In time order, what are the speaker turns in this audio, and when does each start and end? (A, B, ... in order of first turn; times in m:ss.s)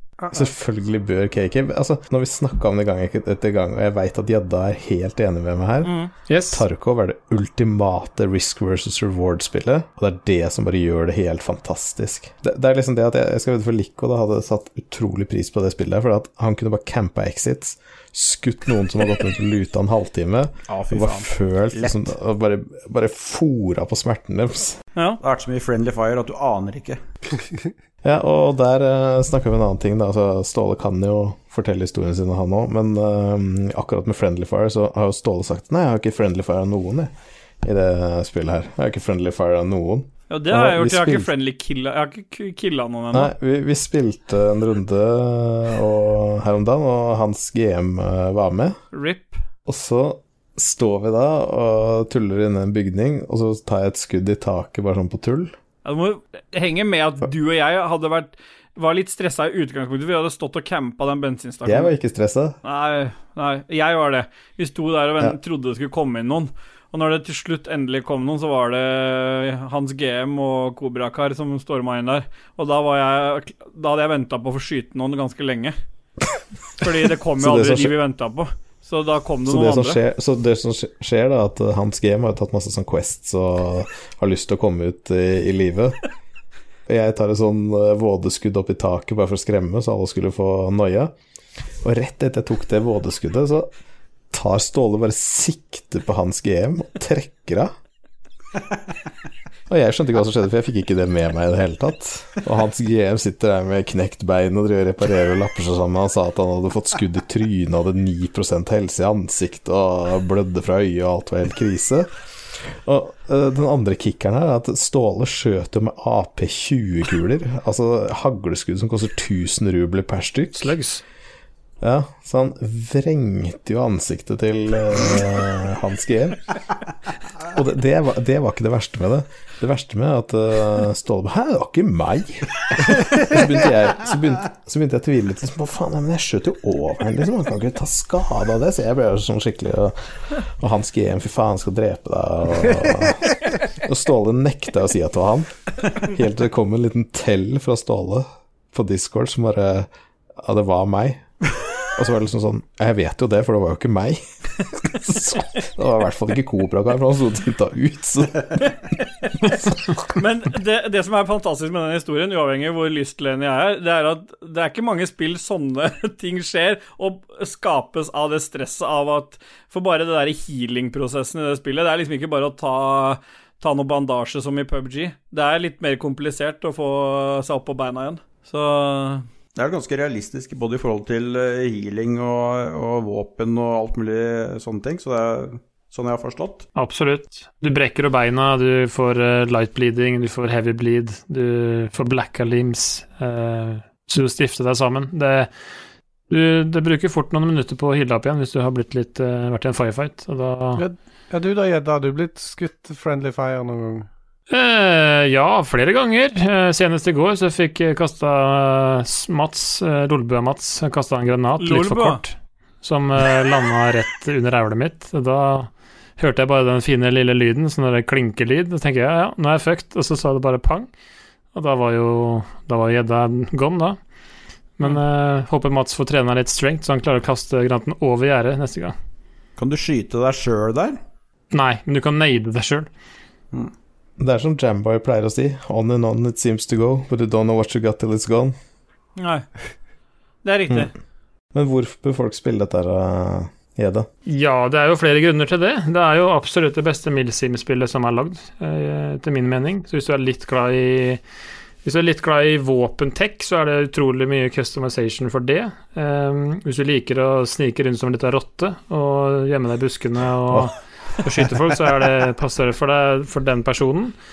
0:00.3-0:06.0 A
0:05.8-0:06.1 B
0:06.3-0:06.6 C
0:06.5-0:24.8 A
0:20.7-0:22.1 D
0:25.2-0:27.0 D
0:28.0-0:41.3 A
0:40.3-0:43.3 B
0:43.1-0:48.8 A
0:48.9-0:49.4 B
0:49.7-0:55.5 A
0:55.8-1:01.9 B
1:01.6-1:02.6 A
1:02.6-1:15.7 B
1:16.8-1:20.0 B
1:17.4-1:18.0 A
1:19.4-1:26.0 A
1:26.9-1:31.1 A
1:31.8-1:33.7 A
1:34.3-1:37.7 A
1:39.7-2:00.8 A
2:00.5-2:01.0 C
2:01.8-2:06.4 A
2:07.4-2:31.2 A
2:31.9-2:34.2 A
2:34.8-2:38.6 A
2:40.0-2:59.2 B
2:59.6-3:06.6 D
3:06.8-3:15.5 C
3:16.3-3:20.8 C
3:20.8-3:24.0 E
3:24.5-3:40.9 C
3:31.6-3:32.2 B
3:41.5-3:44.0 C
3:44.8-3:48.9 C
3:49.6-3:51.0 D
3:51.5-3:52.9 C
3:54.2-3:58.6 A
3:59.2-3:59.4 B
4:00.4-4:00.9 B
4:01.5-4:04.1 A
4:04.2-4:11.2 C
4:11.8-4:24.1 C